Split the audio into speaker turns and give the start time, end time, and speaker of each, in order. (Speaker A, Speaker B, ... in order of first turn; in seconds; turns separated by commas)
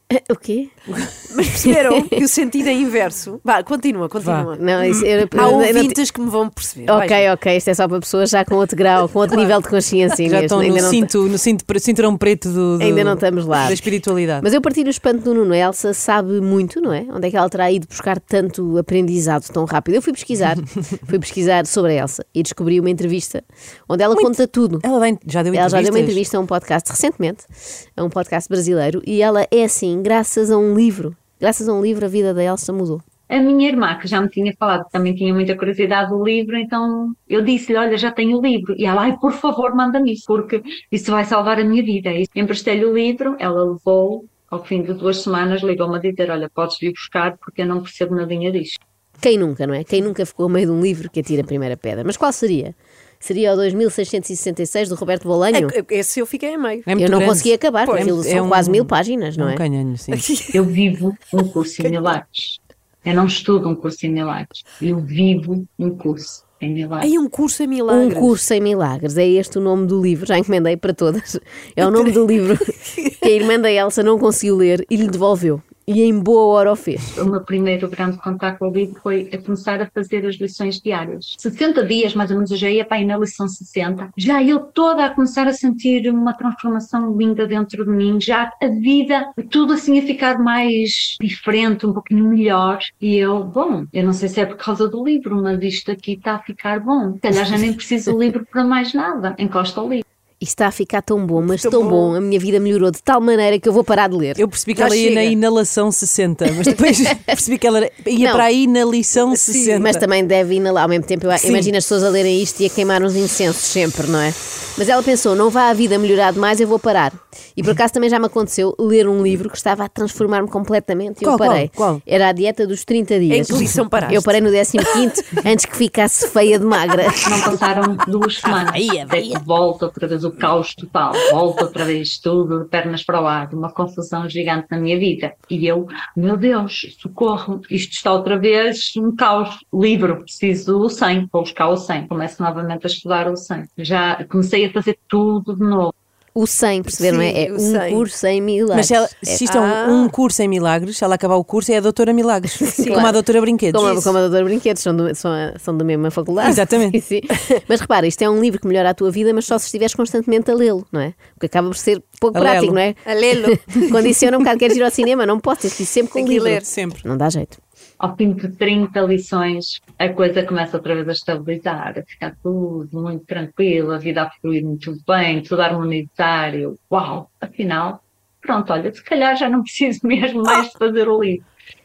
Speaker A: 0.1-0.7, Speaker B: 1.3-7.3, Speaker A: 1.5-2.2, Speaker C: 4.2-4.5, Speaker A: 4.5-6.0, Speaker A: 6.9-11.1, Speaker C: 10.2-14.5, Speaker A: 12.8-13.8, Speaker A: 14.4-24.9, Speaker C: 24.1-26.2, Speaker A: 25.5-27.5, Speaker A: 28.0-33.0, Speaker D: 33.3-48.8, Speaker A: 49.2-55.8, Speaker B: 55.5-56.9, Speaker C: 56.9-60.3, Speaker A: 57.0-59.6, Speaker B: 60.1-60.6, Speaker D: 60.5-67.1, Speaker B: 61.8-62.1, Speaker B: 67.0-68.4, Speaker A: 67.9-77.1, Speaker D: 77.2-100.0, Speaker A: 100.4-104.4, Speaker B: 101.4-102.2, Speaker C: 104.4-110.0, Speaker B: 104.8-105.4, Speaker A: 108.2-108.5, Speaker B: 109.2-109.9, Speaker A: 109.8-127.3, Speaker C: 111.4-111.7, Speaker C: 121.2-122.0, Speaker B: 123.3-124.4, Speaker D: 127.2-145.9, Speaker A: 146.3-149.4, Speaker B: 146.9-148.1, Speaker C: 148.7-154.1, Speaker B: 149.4-150.1, Speaker B: 152.7-153.2, Speaker A: 152.8-153.2, Speaker A: 153.7-167.6, Speaker C: 156.4-157.0, Speaker C: 162.3-162.8, Speaker B: 163.1-164.2, Speaker B: 166.2-166.7, Speaker C: 166.5-167.0, Speaker D: 168.0-181.5